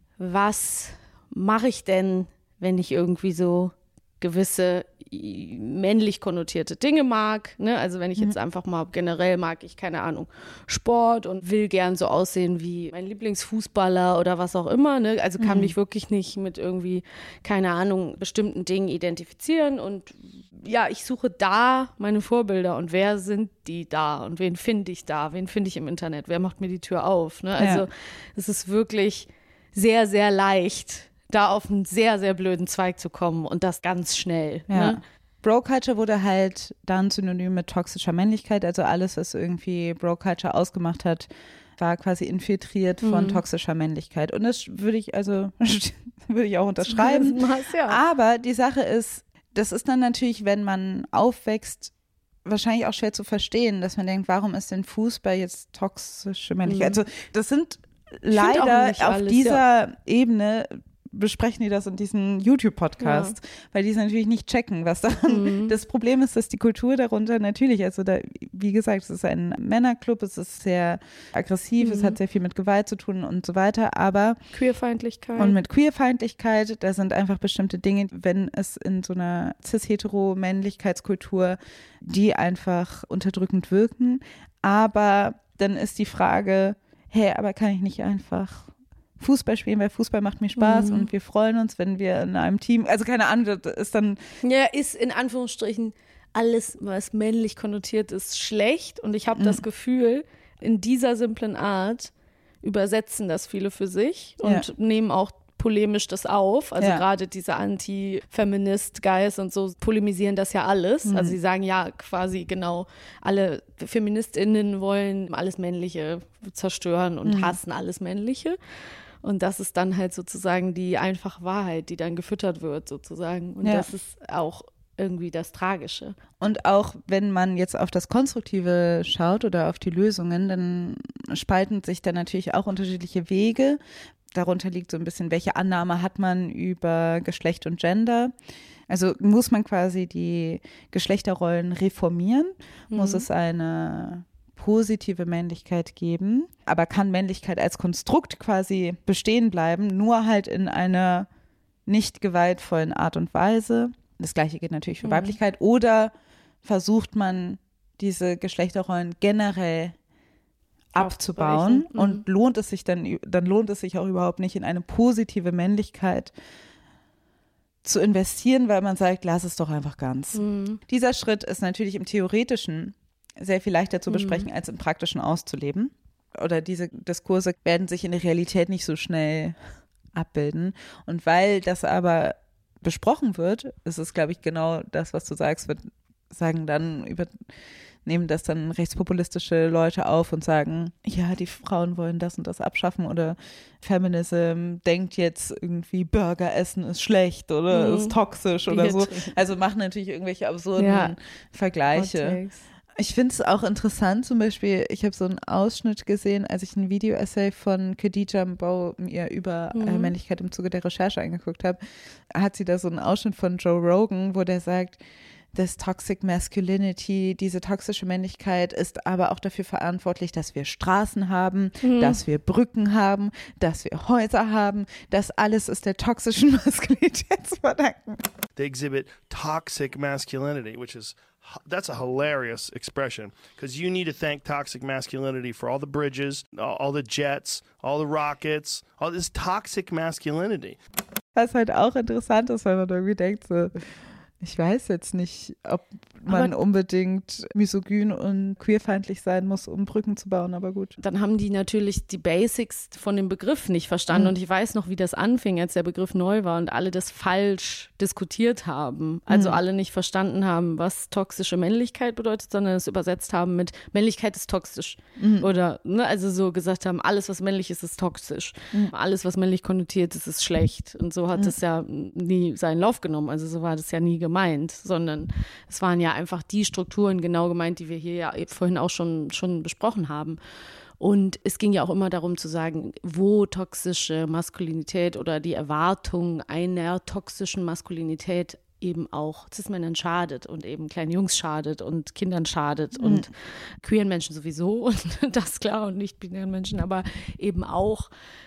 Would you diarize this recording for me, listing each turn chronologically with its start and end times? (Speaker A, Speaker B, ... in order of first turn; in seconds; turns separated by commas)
Speaker A: 0.2-35.0, Speaker B: 15.4-15.7, Speaker B: 27.6-27.9, Speaker B: 34.7-51.9, Speaker A: 43.0-43.4, Speaker A: 46.8-48.0, Speaker B: 52.5-74.4, Speaker A: 56.6-57.0, Speaker A: 58.3-59.6, Speaker A: 63.0-63.4, Speaker A: 65.3-65.8, Speaker A: 71.8-72.2, Speaker A: 74.5-75.5, Speaker B: 75.4-94.2, Speaker A: 90.6-91.1, Speaker A: 94.4-102.1, Speaker B: 99.3-99.6, Speaker A: 102.6-118.6, Speaker B: 111.0-111.3, Speaker B: 117.3-117.6, Speaker A: 119.2-126.1, Speaker B: 123.6-123.9, Speaker B: 126.4-133.8, Speaker B: 134.3-138.3, Speaker B: 138.9-151.3, Speaker A: 142.9-143.3, Speaker B: 151.9-156.1, Speaker A: 155.0-155.4, Speaker B: 156.6-159.9, Speaker B: 160.9-166.3, Speaker A: 160.9-162.2, Speaker B: 167.8-179.6, Speaker A: 170.3-170.8, Speaker A: 174.1-174.5, Speaker B: 180.1-187.3, Speaker B: 188.1-202.4, Speaker A: 197.7-199.3, Speaker A: 200.8-201.1, Speaker A: 201.9-202.6, Speaker B: 202.9-211.8, Speaker A: 209.7-210.1, Speaker B: 212.3-215.0, Speaker B: 215.5-228.2, Speaker A: 221.8-222.2, Speaker C: 228.6-240.8, Speaker B: 241.3-243.7, Speaker B: 244.4-250.9, Speaker A: 246.3-246.6, Speaker A: 251.0-280.4, Speaker B: 259.3-259.6, Speaker B: 265.2-265.5, Speaker A: 281.0-298.1, Speaker B: 293.0-293.3